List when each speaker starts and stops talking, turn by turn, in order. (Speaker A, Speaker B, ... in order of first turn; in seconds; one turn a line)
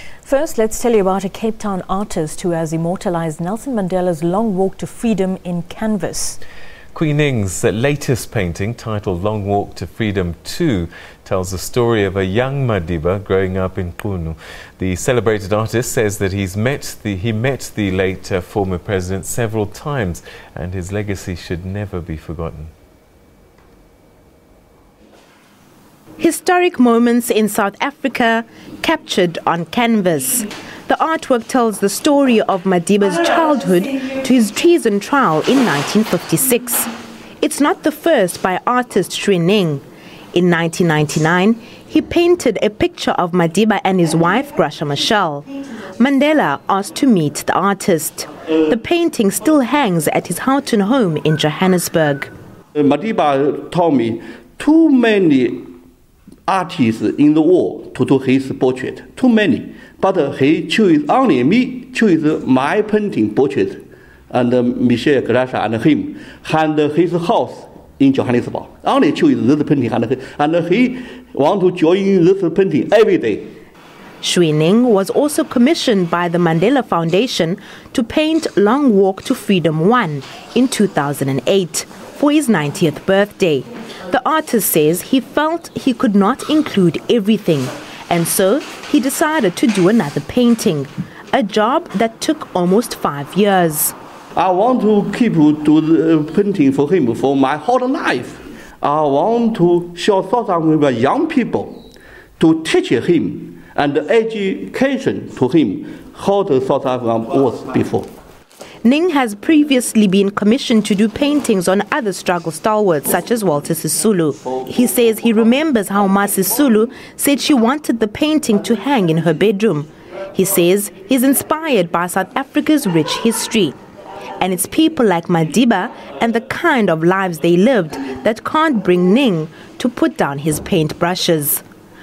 Speaker A: 0.2-6.4
Speaker B: 6.9-22.7
Speaker C: 26.2-36.9
Speaker C: 37.4-52.3
Speaker D: 52.7-55.7
Speaker D: 56.5-73.5
Speaker C: 74.2-93.9
Speaker D: 94.3-101.8
Speaker D: 102.4-108.1
Speaker C: 108.8-123.8
Speaker C: 124.4-131.6